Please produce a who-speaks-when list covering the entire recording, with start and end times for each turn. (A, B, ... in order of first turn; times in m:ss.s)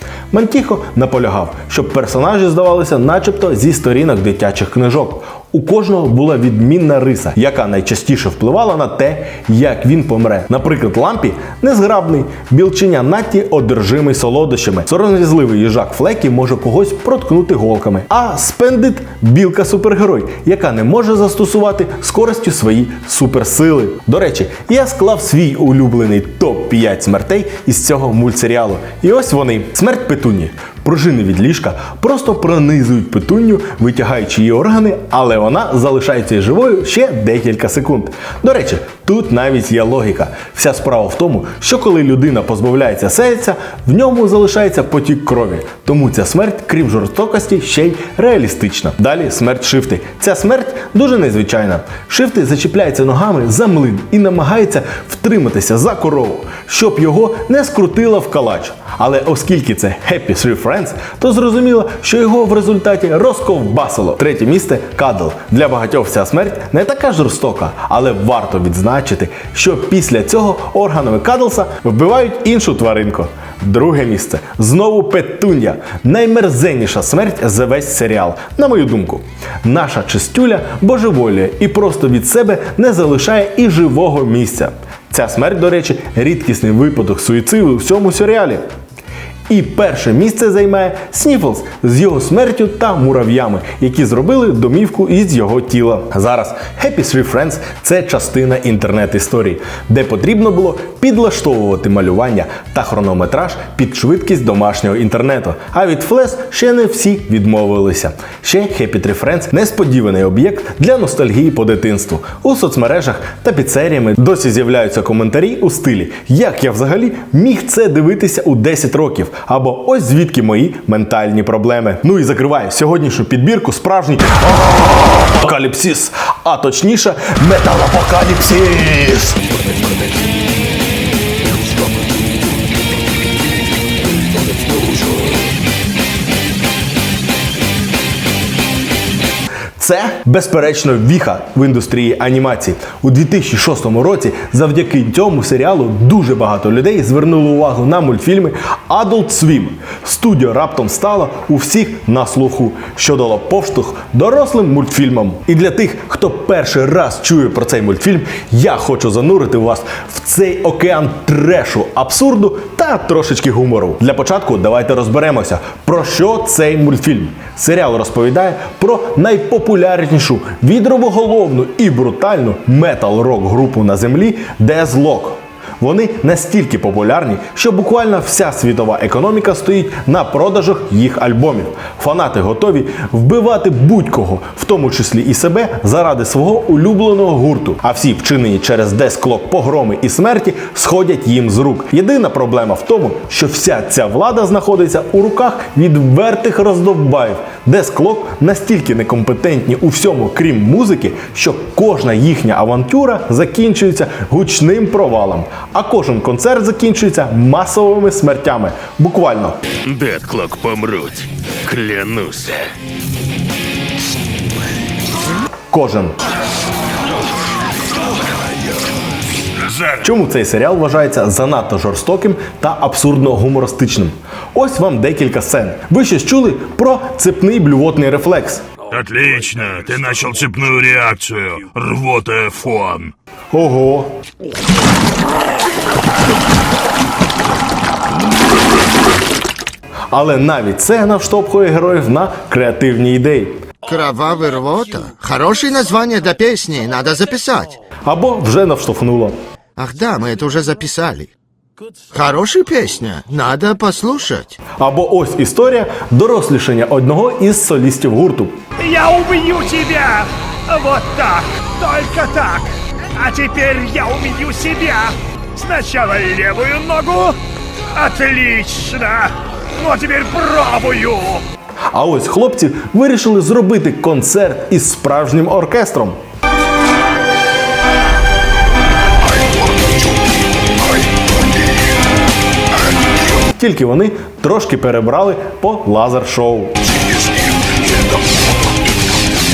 0:00.3-1:28.7 A
1:29.5-2:09.4 A
2:19.8-3:29.6 A
3:29.8-3:32.7 B
3:35.7-3:36.2 A
3:39.6-3:40.1 B
3:40.0-3:48.6 A
3:48.9-3:53.1 B
3:53.5-3:54.2 A
4:00.1-4:03.6 A
4:03.8-4:07.8 C
4:08.0-4:09.4 A
4:09.8-4:11.3 C
4:12.1-4:14.6 C
4:14.8-4:18.6 A
4:18.8-4:27.4 D
4:27.9-4:31.4 D
4:31.9-4:36.2 A
4:43.5-4:46.8 A